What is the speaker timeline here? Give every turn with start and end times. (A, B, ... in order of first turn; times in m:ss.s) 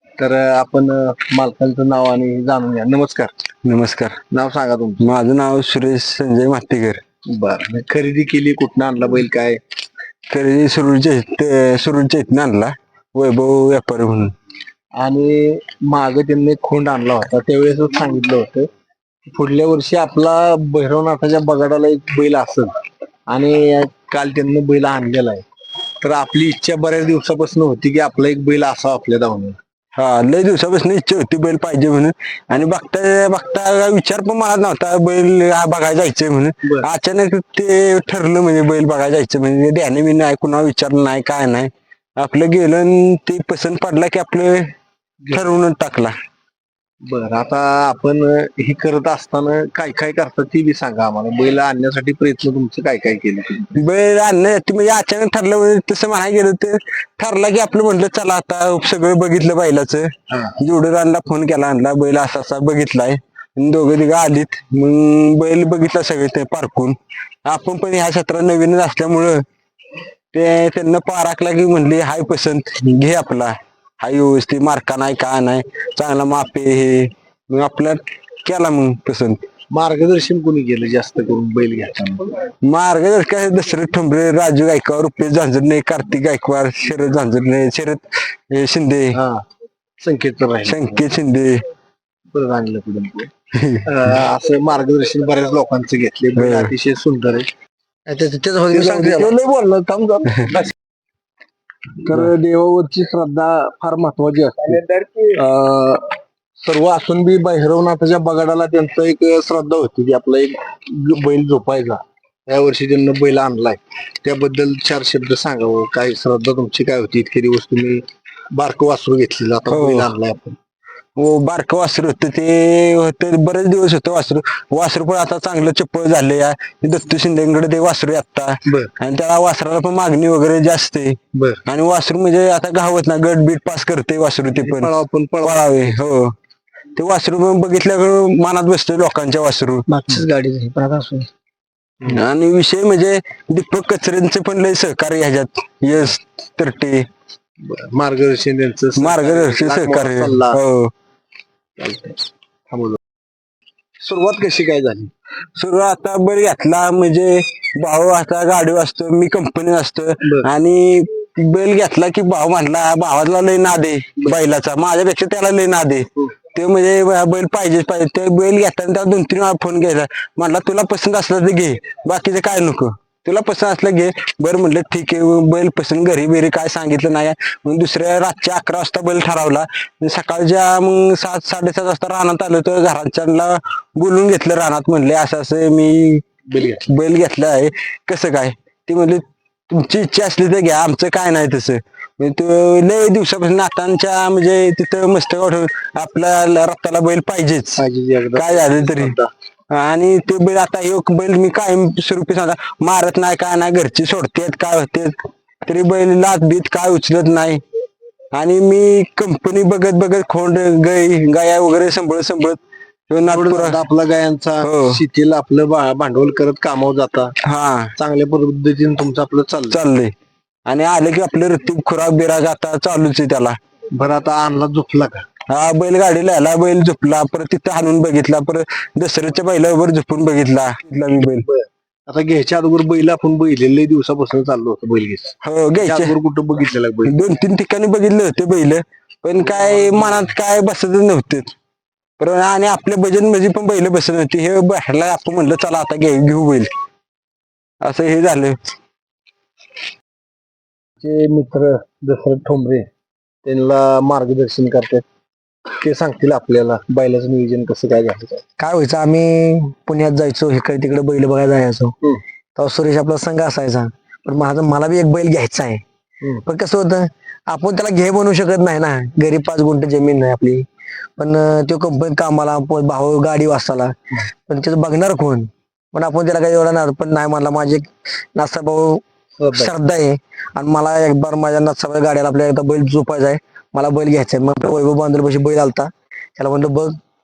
0:00.2-0:03.3 A
0:03.6-0:04.2 B
0:04.3-0:05.1 A
0:05.0-0:07.0 B
0:07.3-0:09.6 A
0:10.3-0:14.3 B
0:15.0-0:18.7 A
0:19.3-0:22.7 A
0:23.3-0:25.4 A
0:26.0-0:29.6 A
0:30.0-0:44.7 B
0:45.3-0:46.1 B
0:47.0-0:53.7 A
0:53.8-1:09.4 B
1:10.3-1:19.4 B
1:19.7-1:22.3 A
1:22.6-1:29.2 B
1:29.2-1:29.4 A
1:30.0-1:31.0 A
1:30.6-1:31.6 B
1:32.3-1:33.3 A
1:33.6-1:33.9 B
1:33.8-1:37.5 A
1:36.4-1:36.7 B
1:38.1-1:39.4 C
1:38.7-1:40.7 A
1:42.0-1:46.0 A
1:46.6-2:00.6 A
1:59.7-2:00.1 B
2:01.2-2:16.3 B
2:08.7-2:08.9 A
2:11.3-2:11.6 A
2:14.5-2:15.9 A
2:17.0-2:19.9 B
2:19.9-2:21.3 C
2:22.1-2:27.0 B
2:27.6-2:30.6 A
2:29.0-2:30.9 B
2:31.8-2:32.2 A
2:32.7-2:33.0 A
2:34.0-2:35.1 A
2:35.6-3:06.2 B
3:06.5-3:06.9 A
3:06.9-3:17.8 B
3:17.8-3:19.3 A
3:18.4-3:19.2 B
3:19.7-3:27.6 B
3:28.3-3:32.6 B
3:33.1-3:33.8 B
3:33.2-3:37.4 A
3:34.6-3:35.0 B
3:37.5-3:37.9 B
3:38.0-3:39.8 A
3:39.7-3:40.1 B
3:40.7-3:43.6 B
3:43.9-3:45.2 A
3:45.5-3:51.4 B
3:51.2-3:57.2 A
3:55.4-3:56.1 B
3:57.1-4:01.5 B
3:59.4-4:00.3 A
4:02.2-4:06.7 B
4:07.8-4:08.6 B
4:11.0-4:12.9 A
4:13.4-4:15.0 A
4:15.8-4:18.4 A
4:18.6-4:21.9 C
4:22.6-4:25.8 C
4:26.5-4:30.7 C
4:31.2-4:34.0 C
4:34.5-4:39.0 C
4:39.4-4:39.7 A
4:39.6-4:47.0 C